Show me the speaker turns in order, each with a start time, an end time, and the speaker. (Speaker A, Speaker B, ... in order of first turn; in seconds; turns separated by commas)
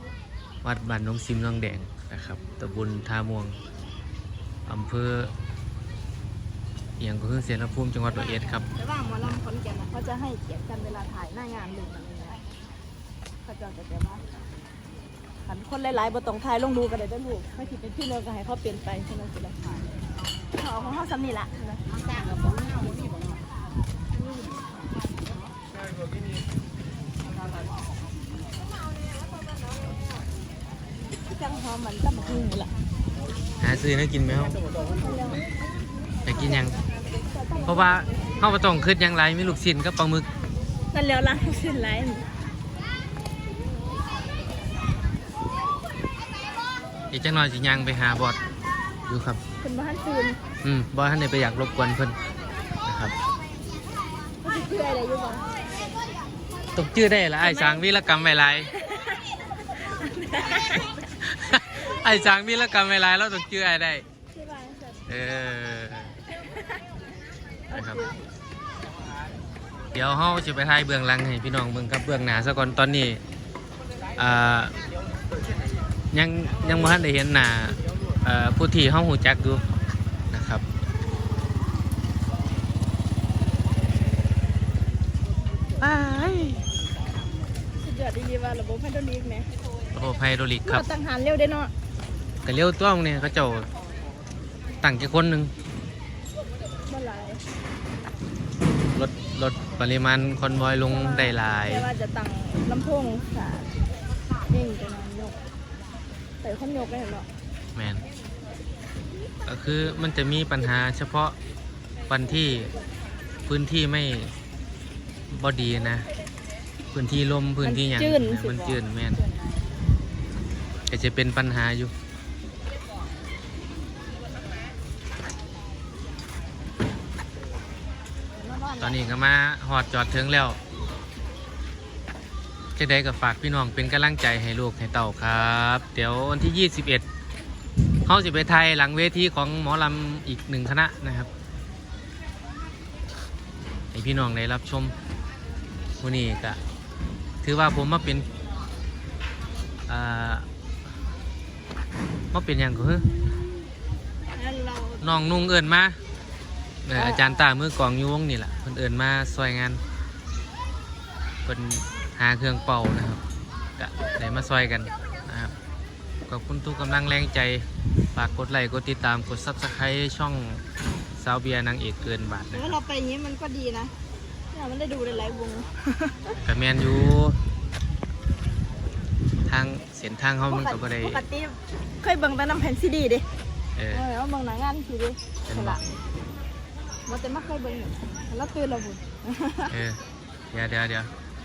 Speaker A: 0.6-3.6, Speaker A: 4.7-5.3, Speaker A: 7.0-8.7, Speaker B: 8.6-12.4, Speaker B: 13.4-14.2, Speaker B: 15.5-19.6, Speaker B: 20.5-22.2, Speaker B: 31.3-32.7, Speaker A: 33.6-34.6, Speaker B: 35.0-35.5, Speaker A: 36.3-36.8, Speaker B: 36.3-38.5, Speaker A: 37.6-40.3, Speaker B: 40.9-42.3, Speaker A: 47.1-48.4, Speaker A: 49.1-49.4, Speaker B: 49.6-50.4, Speaker A: 50.6-52.2, Speaker A: 52.9-53.1, Speaker B: 54.4-55.5, Speaker A: 56.8-58.7, Speaker B: 57.4-57.8, Speaker B: 58.8-59.2, Speaker B: 59.7-61.0, Speaker A: 61.1-64.0, Speaker B: 64.3-65.0, Speaker A: 65.1-66.2, Speaker B: 67.7-68.2, Speaker A: 67.7-68.0, Speaker A: 69.9-73.2, Speaker A: 74.2-74.7, Speaker A: 76.1-79.6, Speaker A: 80.3-80.6, Speaker A: 85.8-86.7, Speaker B: 87.8-89.5, Speaker A: 90.0-90.8, Speaker B: 90.7-91.7, Speaker A: 92.5-93.7, Speaker A: 94.8-95.5, Speaker B: 96.8-97.4, Speaker A: 98.9-101.9, Speaker B: 100.9-103.7, Speaker B: 104.5-105.4, Speaker B: 106.4-107.3, Speaker A: 107.8-108.0, Speaker A: 109.5-111.4, Speaker A: 112.1-112.7, Speaker A: 113.5-114.3, Speaker A: 115.3-116.1, Speaker A: 116.9-119.2, Speaker B: 117.6-119.5, Speaker A: 120.9-121.9, Speaker B: 128.3-129.0, Speaker A: 128.8-130.6, Speaker A: 132.8-137.0, Speaker A: 138.1-141.3, Speaker A: 143.9-144.9, Speaker A: 146.0-146.6, Speaker A: 147.4-148.3, Speaker A: 149.9-150.5, Speaker A: 152.3-153.1, Speaker B: 154.3-155.1, Speaker A: 155.0-156.0, Speaker A: 156.8-159.8, Speaker B: 156.9-157.4, Speaker A: 161.4-163.2, Speaker A: 163.8-165.5, Speaker A: 166.3-170.6, Speaker A: 171.2-172.8, Speaker B: 172.5-173.9, Speaker B: 174.5-176.3, Speaker A: 176.4-177.4, Speaker A: 179.5-181.2, Speaker B: 180.5-183.3, Speaker A: 183.8-184.0, Speaker B: 183.9-185.8, Speaker A: 185.5-185.8, Speaker B: 187.1-189.7, Speaker A: 189.7-190.0, Speaker A: 190.5-191.1